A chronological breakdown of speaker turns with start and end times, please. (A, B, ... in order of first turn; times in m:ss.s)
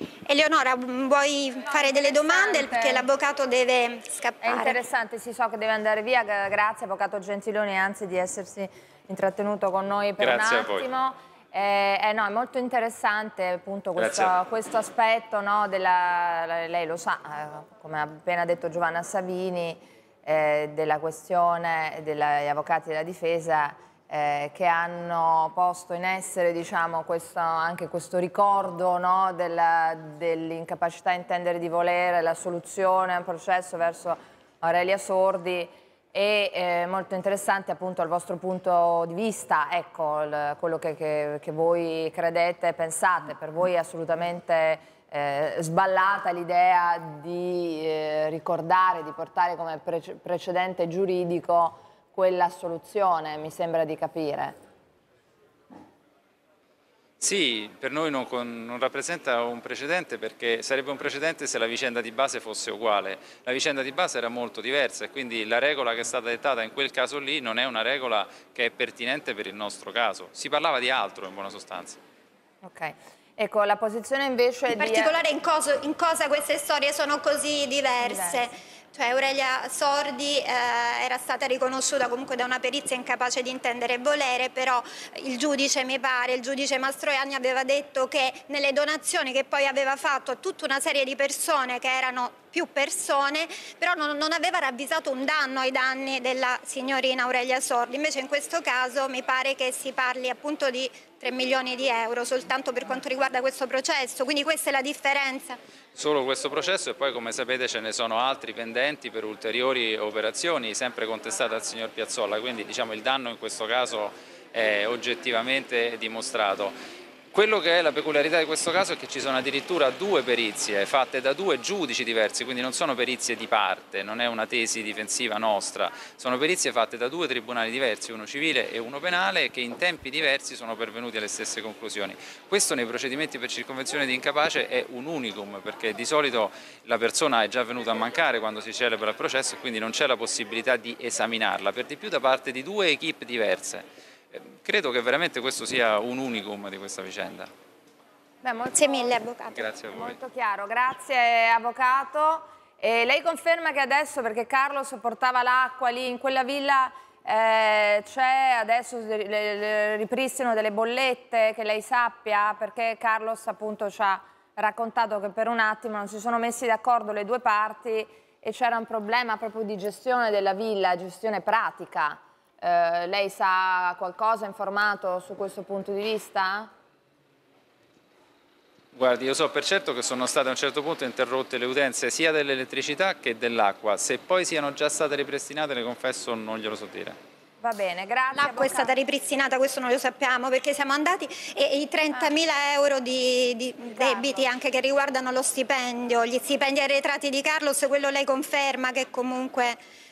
0:00.3-0:04.8 A
0:01.7-0:03.0 B
0:04.4-0:54.6 B
0:10.2-0:10.8 C
0:14.0-0:14.3 C
0:57.2-1:12.0 C
1:12.6-1:15.1 B
1:14.7-1:45.6 A
1:18.0-1:18.4 B
1:45.9-1:56.8 C
1:57.3-2:27.5 C
2:28.4-2:29.1 B
2:28.7-2:29.6 A
2:29.6-2:30.1 C
2:29.8-2:56.7 B
2:58.9-3:07.2 C
3:07.6-3:08.9 B
3:08.3-3:19.8 A
3:13.9-3:14.4 B